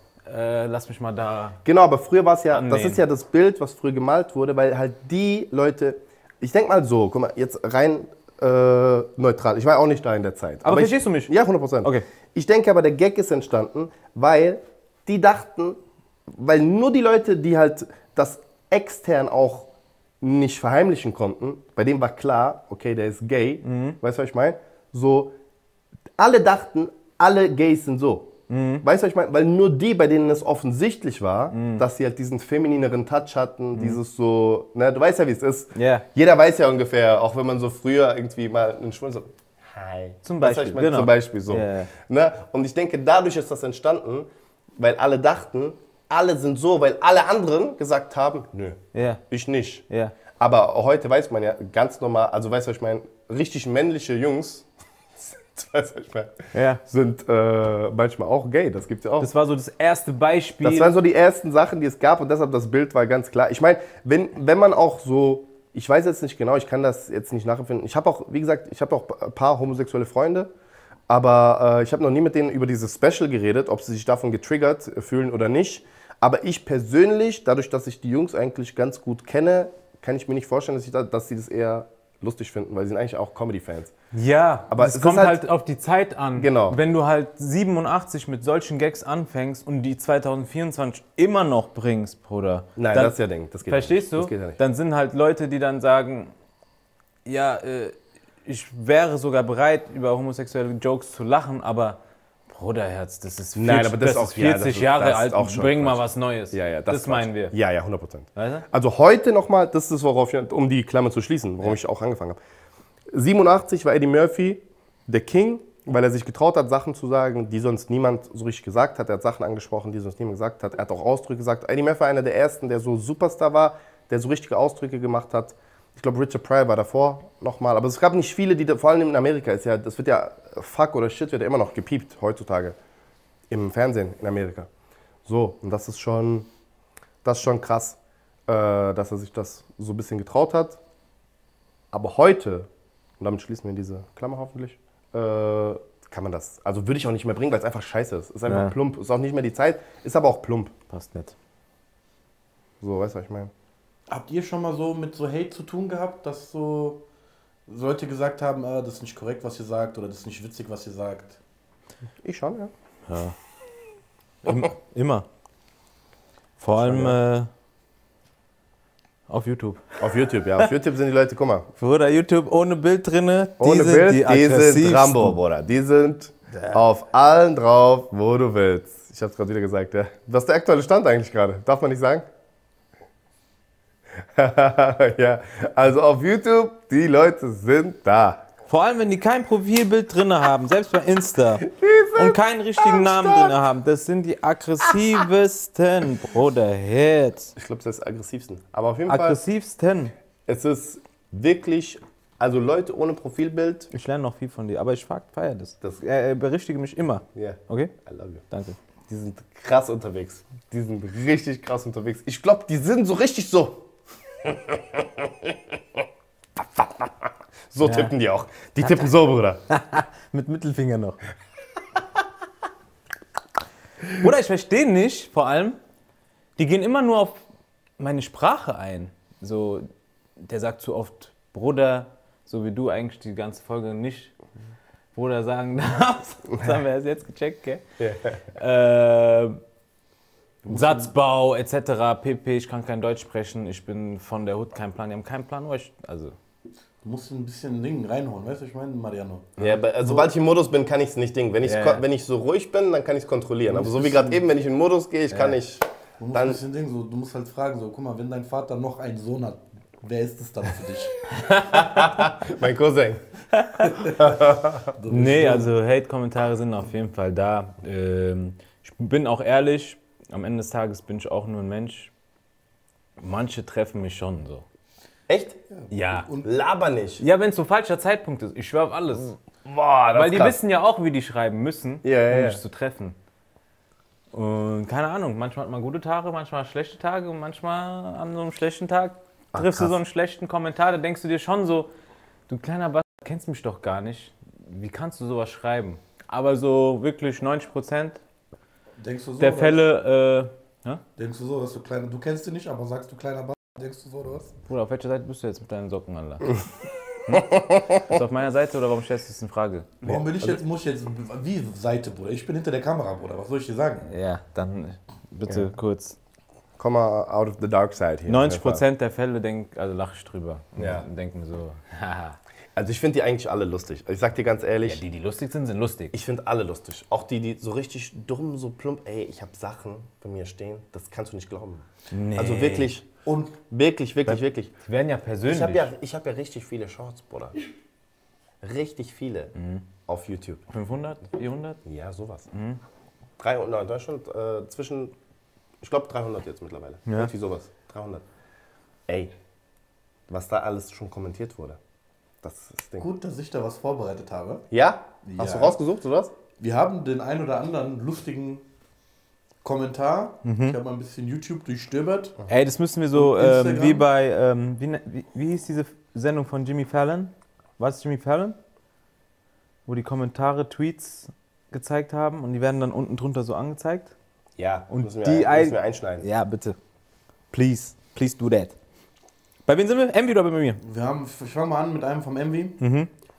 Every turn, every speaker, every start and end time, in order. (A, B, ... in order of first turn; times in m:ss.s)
0:00.3-0:01.6 A
0:01.6-0:19.7 B
0:02.5-0:03.0 A
0:10.6-0:12.1 A
0:20.2-0:25.4 B
0:23.6-0:24.0 A
0:26.2-0:49.8 B
0:28.5-0:28.8 A
0:31.5-0:31.8 A
0:33.7-0:34.0 A
0:35.8-0:36.1 A
0:40.2-0:41.9 A
0:48.9-0:49.2 A
0:49.9-0:50.1 A
0:50.4-0:59.3 B
0:56.5-0:56.8 A
0:59.2-1:01.0 A
1:00.6-1:10.5 B
1:11.1-1:23.9 B
1:24.1-1:36.3 A
1:24.7-1:25.4 B
1:26.4-1:26.8 B
1:32.8-1:34.6 B
1:37.3-1:47.6 A
1:43.6-1:52.4 B
1:48.4-1:48.7 A
1:53.1-2:12.8 B
2:13.5-2:14.7 B
2:15.3-2:16.5 B
2:17.2-2:20.8 B
2:21.9-2:22.7 B
2:23.2-2:30.7 B
2:28.5-2:28.8 A
2:30.9-2:31.3 A
2:32.8-2:33.5 B
2:34.1-2:37.0 C
2:37.7-2:41.4 C
2:42.2-2:42.7 B
2:43.1-2:43.4 A
2:44.4-2:45.3 A
2:46.6-2:47.5 A
2:46.8-2:47.2 B
2:49.3-2:50.0 A
2:50.0-2:51.7 B
2:51.8-2:55.4 A
2:53.6-3:02.3 B
3:04.4-3:08.5 B
3:08.7-3:17.6 A
3:11.6-3:13.6 B
3:17.6-3:19.4 B
3:19.1-3:20.1 A
3:20.5-3:23.9 B
3:23.9-3:27.9 A
3:27.3-3:28.4 B
3:28.5-3:28.8 A
3:29.1-3:33.9 B
3:34.4-3:36.0 B
3:36.6-3:39.6 B
3:37.8-3:38.1 A
3:39.7-3:41.2 A
3:44.2-3:45.8 A
3:46.6-3:47.4 A
3:48.0-3:54.3 A
3:55.1-3:57.8 A
3:58.0-3:58.4 B
3:58.6-3:59.6 A
4:00.6-4:01.1 C
4:00.6-4:06.4 A
4:07.0-4:09.6 C
4:09.6-4:16.6 B
4:11.6-4:12.0 A
4:13.7-4:14.4 C
4:15.3-4:15.6 A
4:16.2-4:21.2 C
4:21.3-4:22.4 A
4:21.8-4:23.2 B
4:23.5-4:23.9 A
4:23.9-4:25.7 C
4:24.2-4:24.9 B
4:25.1-4:32.1 A
4:33.2-4:34.6 A
4:35.3-4:35.9 B
4:35.9-4:36.3 A
4:36.4-4:37.2 B
4:37.2-4:39.4 A
4:39.6-4:40.6 B
4:40.2-4:43.2 A
4:42.0-4:42.6 B
4:44.3-4:51.9 A
4:49.5-4:50.0 B
4:52.5-4:58.2 A
4:59.0-4:59.8 C
4:59.4-5:01.0 A
5:01.2-5:04.5 C
5:04.7-5:06.6 A
5:07.2-5:10.6 A
5:07.3-5:08.0 B
5:10.0-5:14.1 C
5:14.1-5:16.2 A
5:16.8-5:18.8 B
5:18.3-5:22.4 A
5:20.8-5:21.1 B
5:22.8-5:25.0 B
5:24.8-5:26.2 A
5:26.1-5:33.1 B
5:32.1-5:32.9 A
5:33.3-5:33.5 C
5:33.6-5:34.7 B
5:34.3-5:35.9 A
5:35.4-5:37.6 B
5:38.6-5:39.6 B
5:39.6-5:39.8 A
5:40.1-5:40.6 B
5:40.7-5:41.8 A
5:41.8-5:42.5 B
5:42.5-5:42.8 A
5:43.4-5:45.1 B
5:45.8-5:48.2 B
5:49.1-5:49.3 B
5:50.3-5:51.8 B
5:52.4-5:53.1 B
5:53.0-5:54.7 C
5:54.7-5:56.3 B
5:55.2-5:55.8 C
5:56.6-5:58.6 C
5:59.6-6:02.4 C
6:00.4-6:00.8 A
6:02.5-6:08.6 A
6:03.1-6:04.1 C
6:09.9-6:14.1 A
6:14.6-6:16.3 B
6:14.9-6:16.8 A
6:17.5-6:18.8 A
6:19.7-6:20.8 A
6:20.8-6:22.8 C
6:22.8-6:23.1 A